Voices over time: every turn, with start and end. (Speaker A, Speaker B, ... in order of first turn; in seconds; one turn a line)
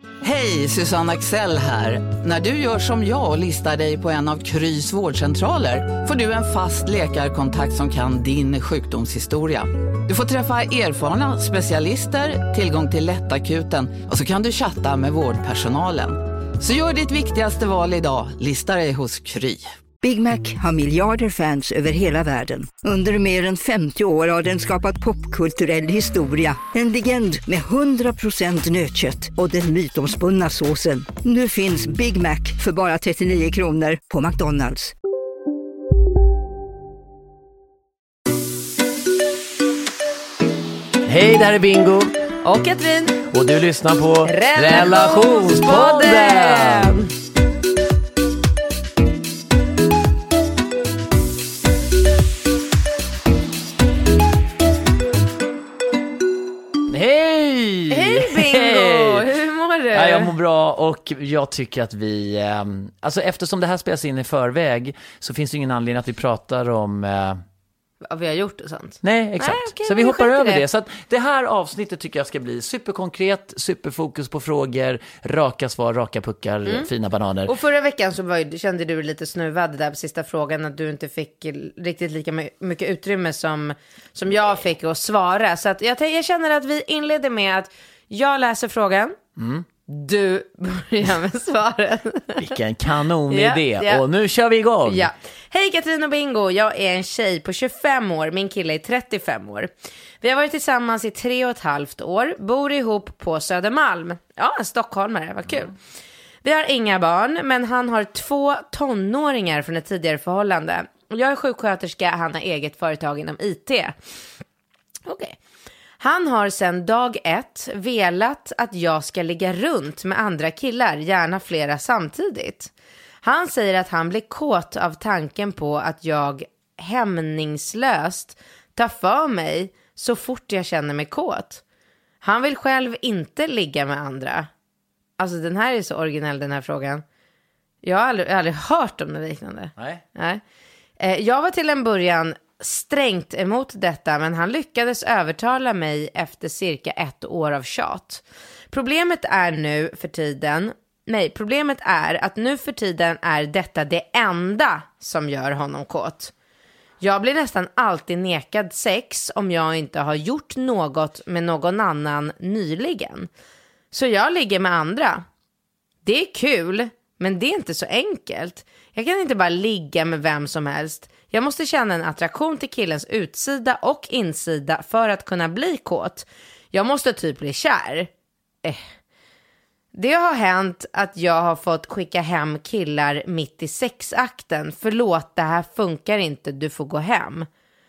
Speaker A: 0.2-19.7
Speaker B: 20.0-34.9
Speaker C: 41.0-42.1
Speaker D: 42.4-43.2
Speaker C: 43.3-46.9
Speaker D: 44.2-47.1
Speaker C: 56.9-59.3
Speaker D: 57.9-60.3
Speaker C: 59.9-67.4
Speaker D: 68.0-70.6
Speaker C: 69.0-77.5
Speaker D: 77.5-89.2
Speaker C: 89.4-89.7
Speaker D: 89.9-92.5
Speaker C: 92.4-95.1
Speaker D: 93.3-94.0
Speaker D: 94.9-105.7
Speaker D: 106.4-114.0
Speaker D: 115.1-115.4
Speaker D: 116.0-122.7
Speaker D: 123.2-131.6
Speaker D: 132.2-134.5
Speaker D: 135.2-137.0
Speaker D: 137.8-140.4
Speaker C: 139.8-140.0
Speaker D: 141.0-156.3
Speaker D: 157.0-163.3
Speaker D: 163.9-165.3
Speaker D: 166.1-178.1
Speaker D: 179.9-187.5